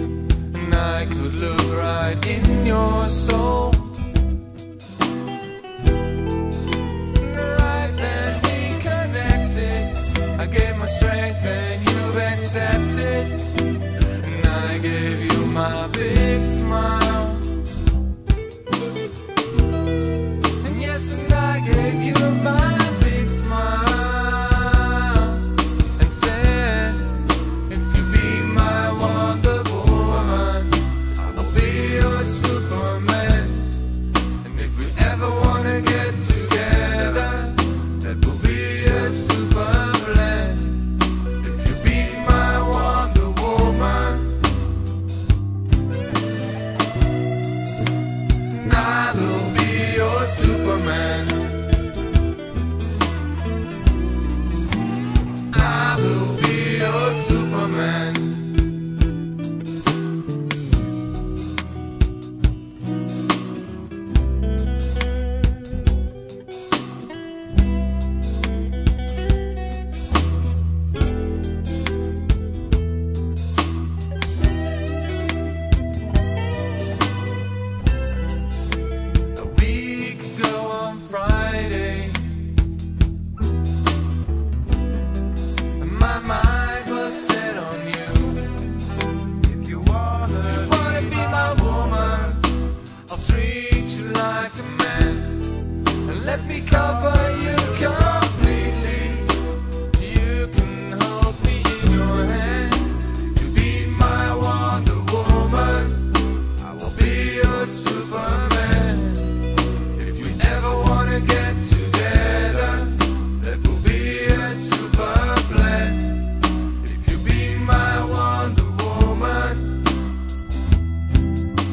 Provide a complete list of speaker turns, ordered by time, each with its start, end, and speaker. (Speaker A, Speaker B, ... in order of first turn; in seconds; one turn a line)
Speaker A: 0.5-3.9
Speaker A: 7.2-13.4
Speaker A: 14.2-17.5
Speaker A: 20.6-33.8
Speaker A: 34.4-44.4
Speaker A: 48.6-51.6
Speaker A: 55.5-58.5
Speaker A: 79.3-82.4
Speaker A: 85.8-88.6
Speaker A: 90.4-92.5
Speaker A: 93.1-95.5
Speaker A: 96.0-99.3
Speaker A: 99.9-119.8